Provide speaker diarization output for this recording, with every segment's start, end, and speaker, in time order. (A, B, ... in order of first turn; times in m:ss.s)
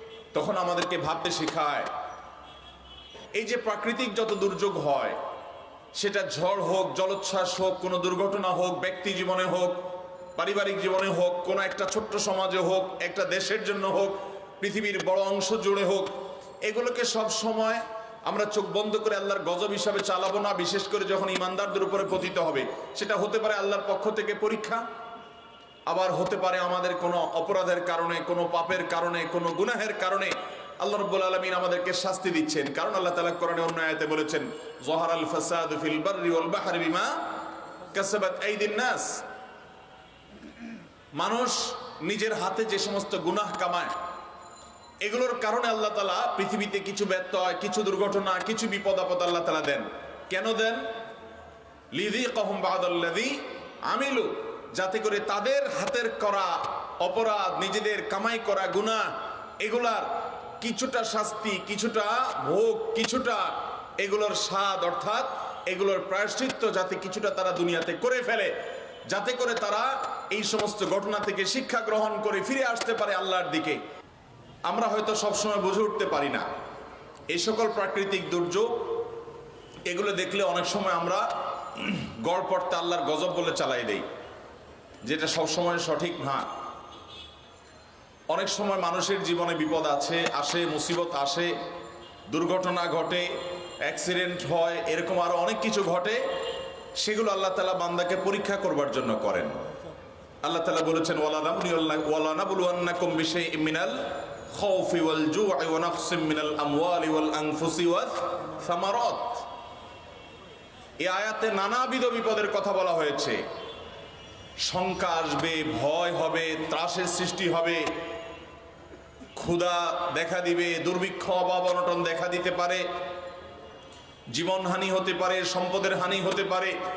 0:00.3-0:01.9 A
0:03.3-0:05.2 A
0:06.0-0:16.1 A
0:16.7-0:24.8 A
0:25.9-0:37.2 A
0:37.9-0:39.2 A
0:41.2-0:43.9 A
0:45.0-0:50.8 A
0:52.0-0:53.4 A
0:53.9-0:59.1 A
0:59.6-1:00.1 A
1:00.6-1:08.5 A
1:09.1-1:13.8 A
1:14.7-1:16.5 A
1:17.3-1:19.1 A
1:19.9-1:24.1 A
1:25.0-1:26.5 A
1:28.3-1:31.5 A
1:32.3-1:33.3 A
1:33.8-1:36.2 A
1:37.0-1:39.5 A
1:40.4-1:49.4 A
1:51.0-1:53.4 A
1:54.6-1:57.9 A
1:59.4-2:02.8 A
2:04.3-2:06.7 A